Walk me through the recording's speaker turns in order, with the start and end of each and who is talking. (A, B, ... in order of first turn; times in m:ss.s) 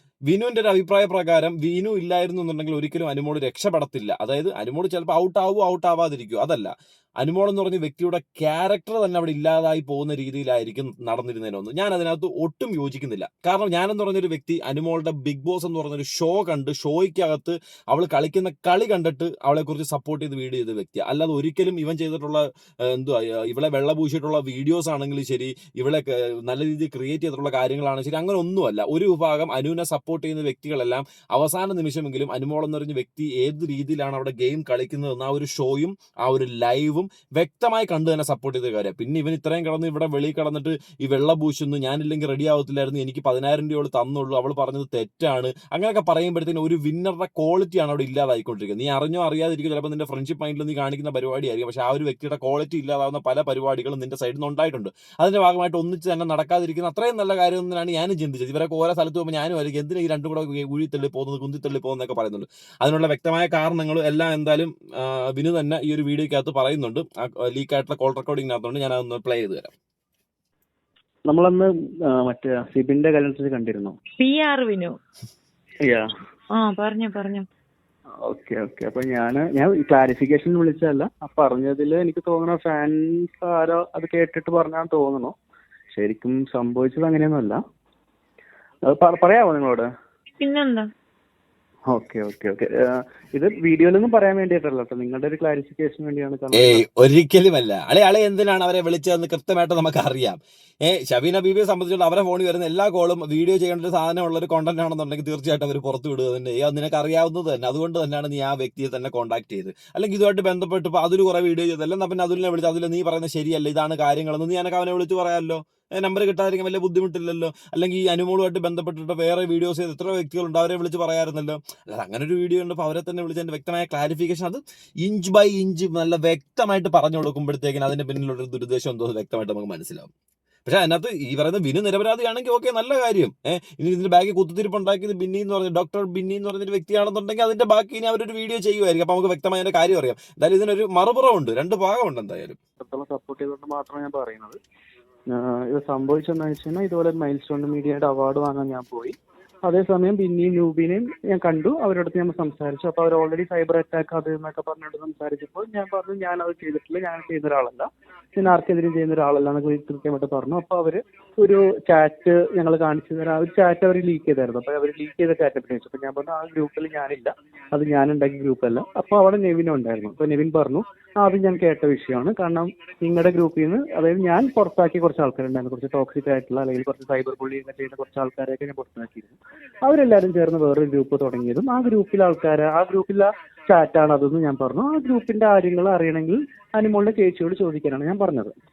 0:00.3-1:09.7 A
1:11.3-1:14.0 B
1:14.2-1:15.0 C
1:15.8-1:16.1 B
1:16.6-1:17.5 C
1:18.2-1:25.3 B
1:25.9-1:27.6 B
1:28.9-1:29.9 B
1:30.4-1:30.9 C
1:31.9-1:36.8 B
1:36.6-2:10.1 A
2:10.7-2:22.6 A
2:22.8-2:24.6 B
2:25.3-3:08.5 B